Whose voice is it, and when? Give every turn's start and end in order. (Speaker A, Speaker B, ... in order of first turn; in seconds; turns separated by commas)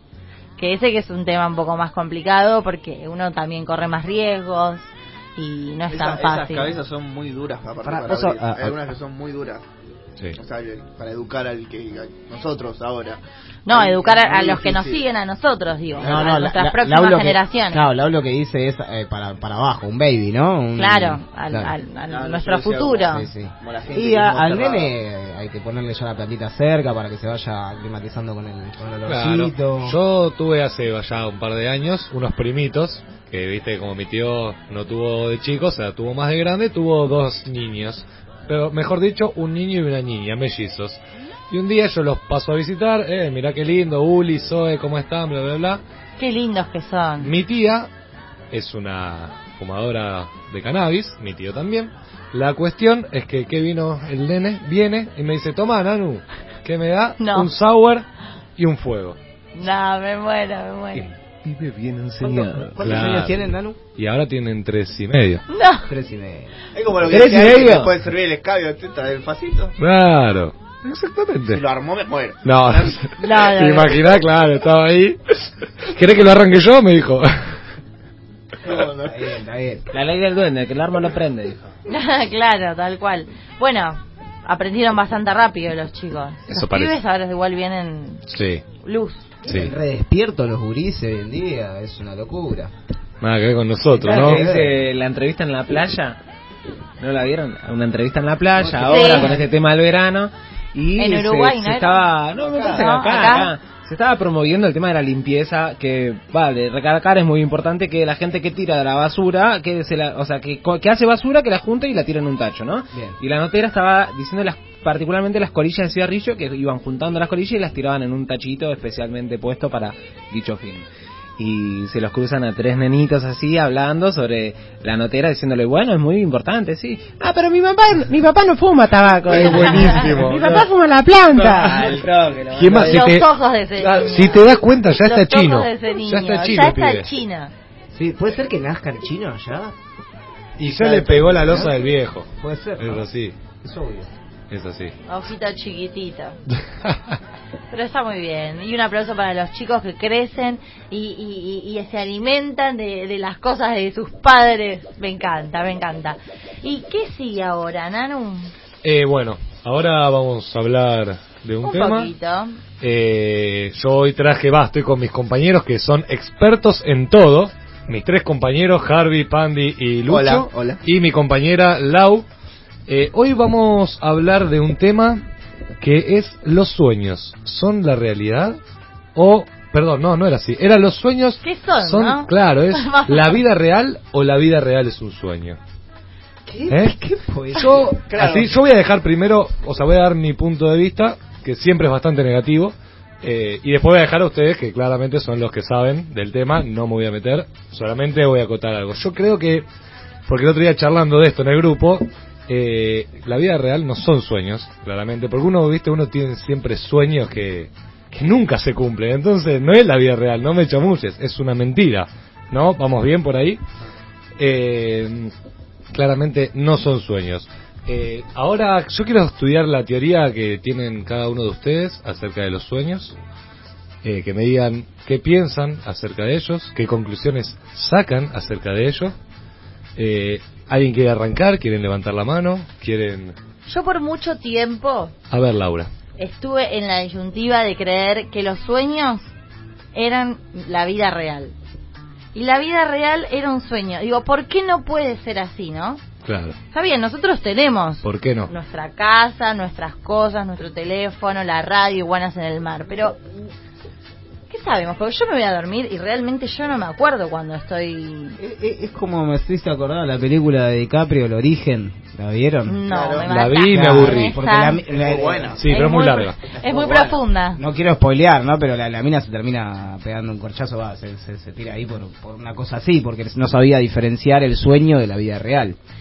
Speaker A: 0.6-6.8, Speaker B: 5.9-9.6, Speaker C: 7.8-8.8, Speaker B: 10.4-15.0, Speaker A: 13.7-17.9, Speaker C: 16.0-21.7, Speaker A: 20.8-23.3, Speaker B: 22.1-24.9, Speaker C: 23.1-30.0, Speaker D: 29.1-45.8, Speaker A: 46.2-47.3, Speaker D: 47.2-47.9, Speaker D: 48.5-58.1, Speaker A: 57.2-57.5, Speaker D: 58.6-59.2, Speaker A: 59.5-61.1, Speaker E: 61.0-62.8, Speaker C: 62.2-63.8, Speaker D: 62.8-63.4, Speaker D: 64.0-65.4, Speaker A: 65.5-65.9, Speaker C: 65.9-66.5, Speaker B: 66.7-69.8, Speaker E: 67.1-67.9, Speaker D: 69.8-71.6, Speaker B: 71.5-73.0, Speaker D: 72.4-77.5, Speaker A: 73.2-74.0, Speaker B: 78.6-79.2, Speaker C: 79.1-79.9, Speaker E: 79.9-81.7, Speaker A: 81.9-88.2, Speaker D: 86.5-87.0, Speaker D: 88.3-88.6, Speaker A: 88.8-89.3, Speaker D: 89.5-89.7, Speaker C: 89.5-92.7, Speaker D: 93.2-94.4, Speaker C: 94.0-94.8, Speaker E: 94.0-96.2, Speaker E: 97.0-120.9, Speaker C: 98.6-99.2, Speaker A: 98.9-99.4, Speaker A: 101.0-102.1, Speaker A: 102.6-103.5, Speaker C: 112.9-113.2, Speaker E: 121.4-133.1, Speaker D: 129.3-130.7, Speaker D: 131.3-137.1, Speaker A: 132.8-134.5, Speaker A: 135.0-137.5, Speaker C: 137.9-139.7, Speaker D: 140.6-142.3, Speaker C: 140.8-141.8, Speaker B: 140.9-141.6, Speaker C: 142.4-143.1, Speaker D: 142.8-143.3, Speaker C: 143.6-144.1, Speaker D: 144.5-144.9, Speaker A: 145.1-146.4, Speaker D: 146.8-147.2, Speaker A: 147.7-158.5, Speaker D: 158.8-162.1, Speaker A: 161.6-162.6, Speaker D: 162.8-172.2, Speaker B: 170.1-170.8, Speaker D: 172.9-175.2, Speaker D: 175.8-178.6, Speaker D: 179.2-185.6, Speaker A: 181.4-183.4, Speaker C: 186.5-188.0, Speaker D: 186.7-187.0, Speaker D: 187.5-199.7, Speaker B: 188.1-188.6, Speaker D: 200.3-213.6, Speaker D: 214.4-215.3, Speaker D: 215.9-223.2, Speaker D: 224.0-229.1, Speaker D: 230.0-233.3, Speaker A: 233.7-235.1, Speaker D: 235.3-235.9, Speaker A: 236.2-239.2, Speaker A: 239.9-241.5, Speaker A: 242.3-246.0, Speaker D: 246.2-246.6, Speaker A: 246.7-253.2, Speaker D: 248.0-248.5, Speaker A: 254.5-258.4, Speaker C: 258.4-262.8, Speaker A: 262.7-264.8, Speaker B: 262.9-263.3, Speaker D: 263.3-264.4, Speaker C: 263.7-265.6, Speaker B: 264.9-265.6, Speaker D: 265.6-266.4, Speaker A: 265.7-267.6, Speaker C: 266.6-275.8, Speaker B: 266.7-267.1